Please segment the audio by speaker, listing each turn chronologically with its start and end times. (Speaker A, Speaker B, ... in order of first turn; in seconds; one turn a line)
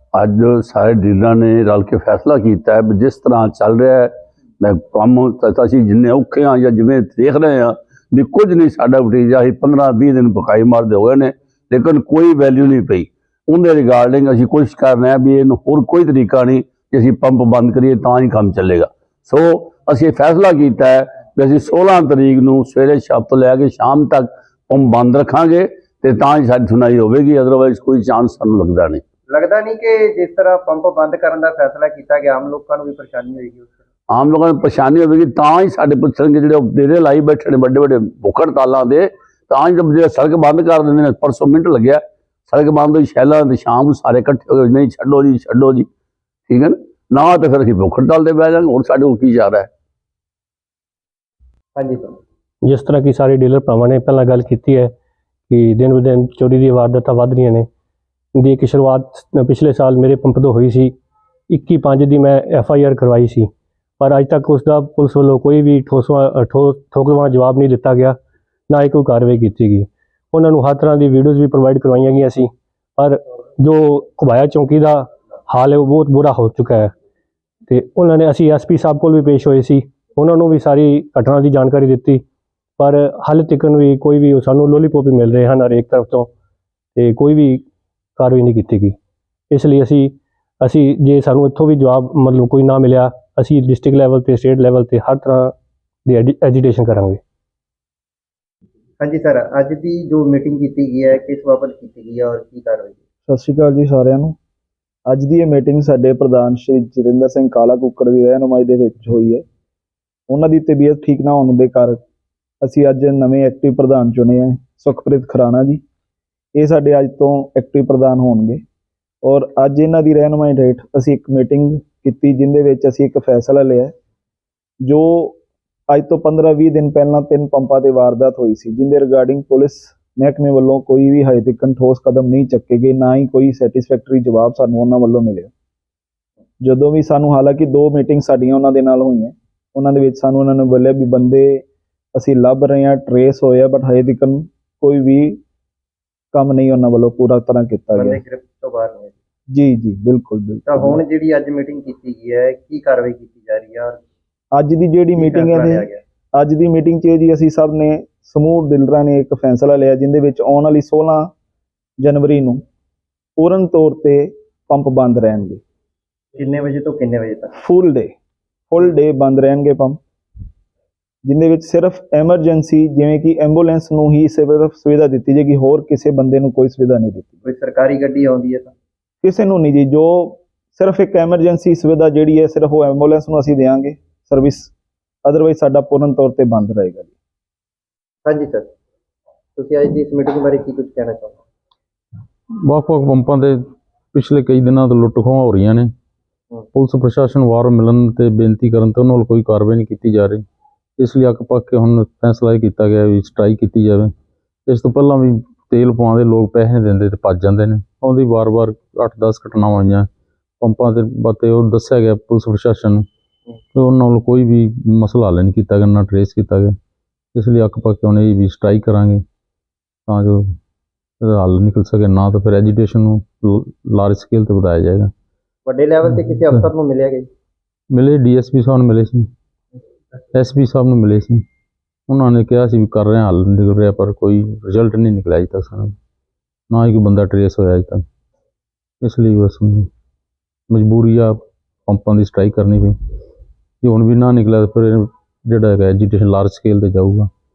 Speaker A: 0.1-29.0
Speaker B: 29.3-33.7
Speaker A: 34.1-45.9
Speaker A: 46.5-49.7
Speaker B: 51.7-52.2
Speaker C: 52.6-54.9
Speaker C: 55.5-57.6
Speaker C: 58.4-60.9
Speaker C: 61.5-68.2
Speaker C: 68.7-76.9
Speaker C: 77.7-82.2
Speaker C: 82.8-86.3
Speaker C: 87.0-87.6
Speaker C: 88.2-88.9
Speaker C: 89.5-95.5
Speaker C: 96.1-97.2
Speaker B: 99.0-102.9
Speaker D: 103.3-104.3
Speaker D: 105.1-109.4
Speaker D: 110.3-112.0
Speaker D: 112.6-115.8
Speaker D: 116.5-118.6
Speaker D: 119.2-123.9
Speaker D: 124.8-125.4
Speaker D: 125.9-135.5
Speaker D: 136.6-141.6
Speaker D: 142.1-145.4
Speaker D: 146.3-148.2
Speaker B: 147.9-149.1
Speaker D: 149.5-151.0
Speaker B: 150.7-154.0
Speaker D: 154.5-161.3
Speaker B: 155.1-156.0
Speaker D: 162.0-162.6
Speaker D: 163.4-165.6
Speaker B: 166.3-167.5
Speaker D: 167.5-168.1
Speaker D: 168.7-170.0
Speaker D: 171.2-177.4
Speaker B: 177.4-178.7
Speaker D: 179.2-184.7
Speaker D: 185.2-187.1
Speaker B: 188.2-188.7
Speaker B: 189.6-191.4
Speaker E: 192.7-193.6
Speaker E: 194.1-195.9
Speaker E: 196.7-200.4
Speaker E: 201.0-204.1
Speaker E: 204.7-210.1
Speaker E: 210.6-213.0
Speaker E: 213.7-216.7
Speaker E: 217.3-219.2
Speaker E: 220.1-220.4
Speaker E: 221.2-225.1
Speaker B: 225.7-227.3
Speaker E: 227.9-229.3
Speaker E: 230.3-231.4
Speaker E: 232.1-235.9
Speaker E: 236.7-238.0
Speaker E: 239.0-239.9
Speaker E: 240.7-242.9
Speaker E: 243.8-247.3